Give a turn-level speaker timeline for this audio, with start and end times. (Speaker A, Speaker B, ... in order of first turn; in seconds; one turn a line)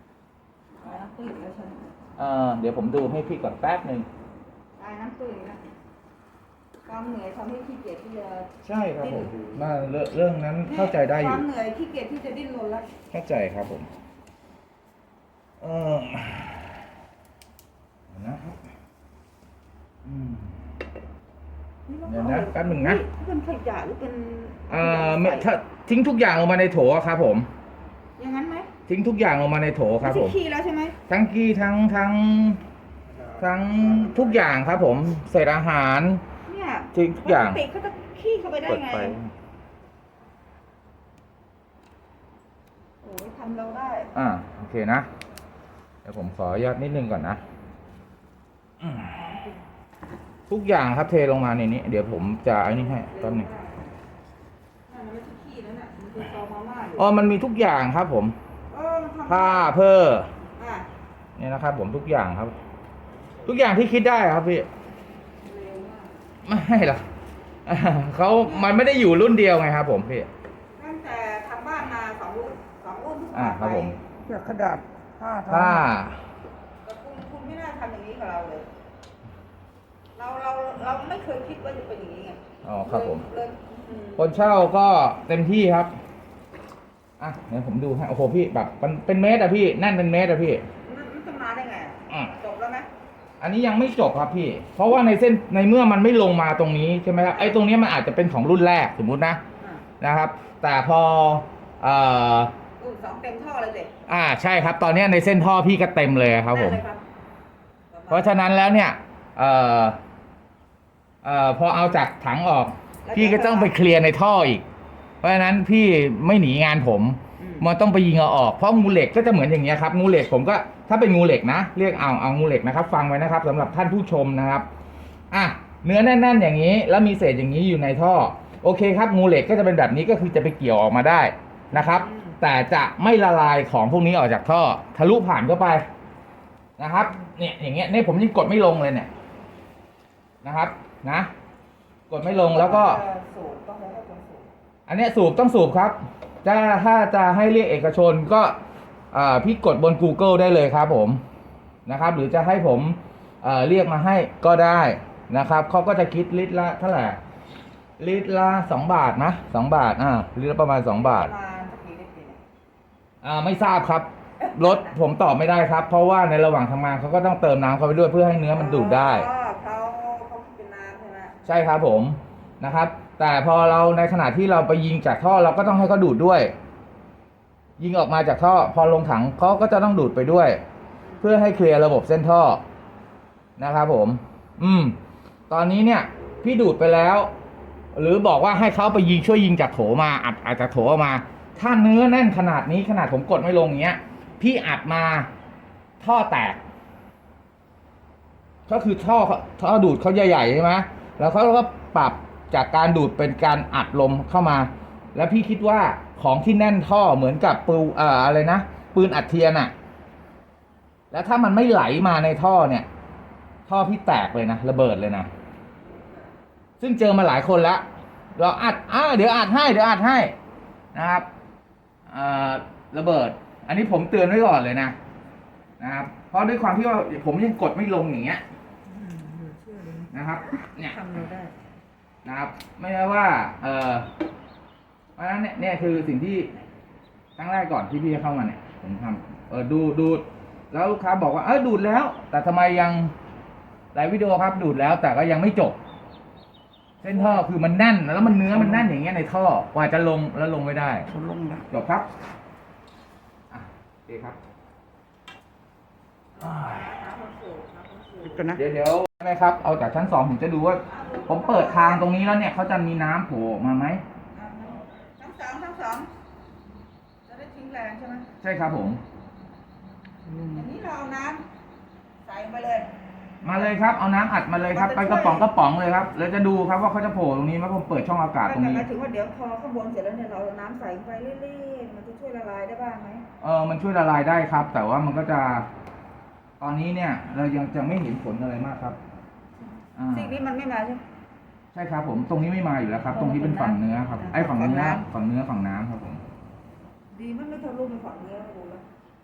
Speaker A: 0.8-1.9
Speaker B: 2.2-4.1
Speaker A: 4.8-5.6
Speaker A: 6.9-9.4
Speaker B: 8.6-11.5
Speaker A: 10.6-12.9
Speaker B: 13.1-13.9
Speaker B: 15.6-16.7
Speaker B: 18.1-18.6
Speaker B: 20.0-20.6
Speaker A: 21.9-25.5
Speaker B: 22.1-23.0
Speaker B: 24.7-27.5
Speaker A: 28.2-28.7
Speaker B: 28.9-30.4
Speaker A: 30.0-31.0
Speaker B: 31.1-32.6
Speaker B: 33.3-36.2
Speaker A: 36.5-39.2
Speaker B: 36.9-37.6
Speaker B: 38.7-39.3
Speaker A: 43.0-44.1
Speaker B: 44.1-45.1
Speaker B: 46.0-47.4
Speaker B: 48.8-49.1
Speaker A: 49.1-49.6
Speaker B: 50.5-53.5
Speaker A: 52.6-54.0
Speaker A: 54.9-57.1
Speaker B: 57.0-58.4
Speaker A: 58.7-59.8
Speaker B: 59.3-60.3
Speaker A: 60.6-60.9
Speaker B: 61.4-62.6
Speaker B: 63.4-64.7
Speaker A: 65.4-66.2
Speaker B: 66.4-67.1
Speaker B: 67.7-70.3
Speaker A: 68.4-68.8
Speaker A: 70.8-74.0
Speaker B: 73.3-73.9
Speaker C: 74.3-75.9
Speaker B: 75.4-76.2
Speaker A: 76.8-78.7
Speaker A: 80.2-84.6
Speaker B: 82.6-83.2
Speaker B: 84.2-85.9
Speaker B: 87.2-90.7
Speaker A: 90.8-92.9
Speaker B: 93.4-99.4
Speaker A: 97.3-97.7
Speaker A: 99.6-99.8
Speaker B: 100.0-102.5
Speaker A: 102.8-103.9
Speaker B: 104.1-106.8
Speaker A: 106.5-107.0
Speaker A: 107.9-108.5
Speaker B: 108.1-110.0
Speaker B: 111.2-114.7
Speaker A: 113.0-113.8
Speaker B: 115.2-124.7
Speaker A: 117.4-117.7
Speaker B: 125.3-135.8
Speaker A: 131.7-132.4
Speaker B: 136.8-139.1
Speaker B: 140.4-141.3
Speaker B: 142.1-143.0
Speaker A: 142.4-144.5
Speaker B: 144.9-148.6
Speaker B: 149.1-151.2
Speaker B: 151.9-157.2
Speaker B: 158.0-161.3
Speaker A: 161.0-162.4
Speaker B: 163.2-169.3
Speaker A: 164.4-164.9
Speaker A: 168.5-171.3
Speaker B: 171.4-176.5
Speaker B: 177.8-180.6
Speaker A: 181.0-181.3
Speaker B: 181.2-182.6
Speaker B: 183.6-185.0
Speaker B: 185.5-187.3
Speaker B: 187.9-195.3
Speaker B: 196.0-196.6
Speaker B: 198.7-209.7
Speaker B: 211.1-212.9
Speaker B: 213.7-215.3
Speaker B: 216.8-217.8
Speaker B: 218.4-220.3
Speaker B: 220.9-221.3
Speaker B: 222.1-224.9
Speaker B: 225.8-228.4
Speaker A: 228.8-231.6
Speaker B: 230.1-231.1
Speaker B: 232.2-234.1
Speaker B: 235.2-236.5
Speaker B: 237.4-243.1
Speaker B: 243.9-245.8
Speaker B: 247.0-251.1
Speaker A: 247.0-247.5
Speaker C: 251.1-251.7
Speaker B: 251.7-252.1
Speaker B: 253.5-254.4
Speaker A: 256.4-258.6
Speaker C: 258.3-258.6
Speaker B: 258.5-264.0
Speaker A: 260.8-262.1
Speaker A: 264.3-266.1
Speaker A: 267.3-268.3
Speaker B: 268.4-269.0
Speaker C: 270.3-270.7
Speaker A: 270.5-271.4
Speaker A: 272.2-272.9
Speaker B: 273.4-278.9
Speaker A: 273.4-273.7
Speaker A: 274.7-275.5
Speaker A: 278.4-283.2
Speaker B: 283.4-285.7
Speaker B: 286.6-289.0
Speaker B: 290.0-290.3
Speaker A: 290.1-291.0
Speaker B: 291.7-296.2
Speaker A: 293.1-295.0
Speaker A: 297.1-298.9